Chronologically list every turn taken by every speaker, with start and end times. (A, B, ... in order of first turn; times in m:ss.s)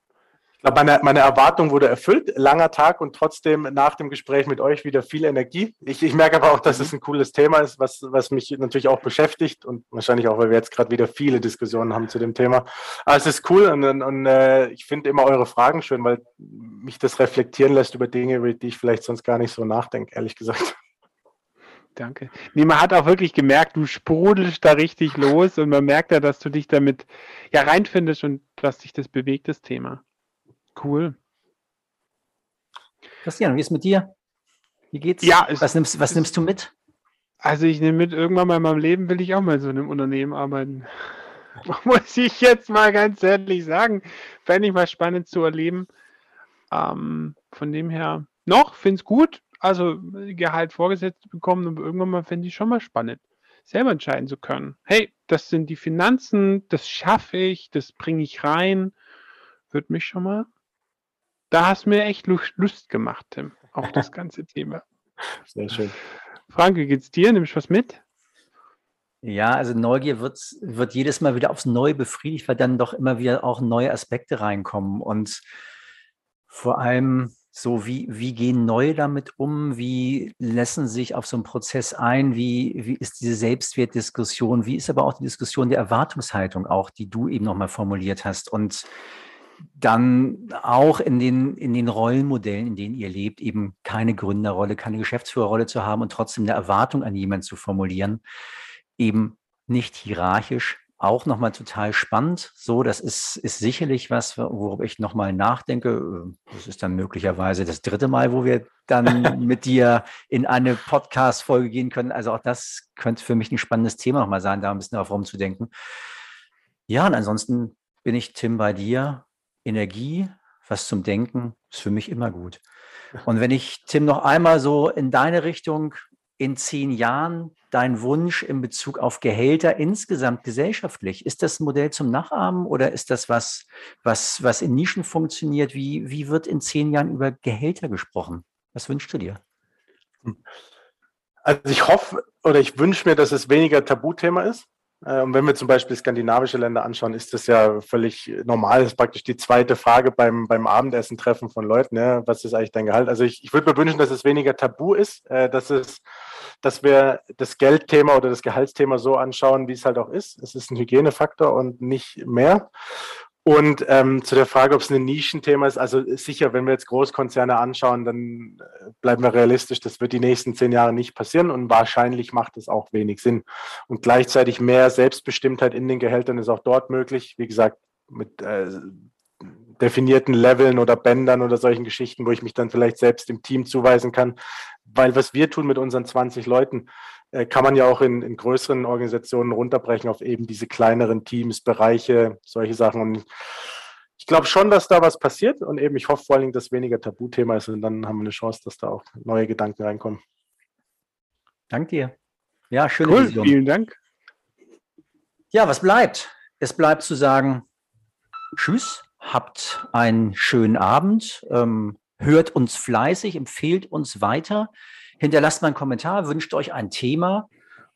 0:00.6-0:20.8 A
0:22.0-0:30.0 B
0:30.8-0:31.2 B
0:33.2-0:34.1 C
0:34.9-0:36.7 C
0:35.2-0:36.2 B
0:37.4-0:45.9 B
0:46.7-0:58.9 B
0:59.7-1:00.5 B
1:01.5-1:04.8 B
1:05.5-1:06.0 A
1:06.5-1:08.0 B
1:09.2-1:15.4 C
1:16.5-1:28.9 C
1:29.8-1:38.2 C
1:39.0-1:55.7 C
1:56.9-2:02.6 C
2:03.2-2:19.4 C
2:21.4-2:36.0 A
2:36.6-2:42.7 A
2:43.4-3:13.3 A
3:14.2-3:20.2 A
3:21.7-3:22.1 C
3:22.7-3:23.5 C
3:23.0-3:24.0 B
3:25.5-3:27.6 C
3:28.6-3:37.5 C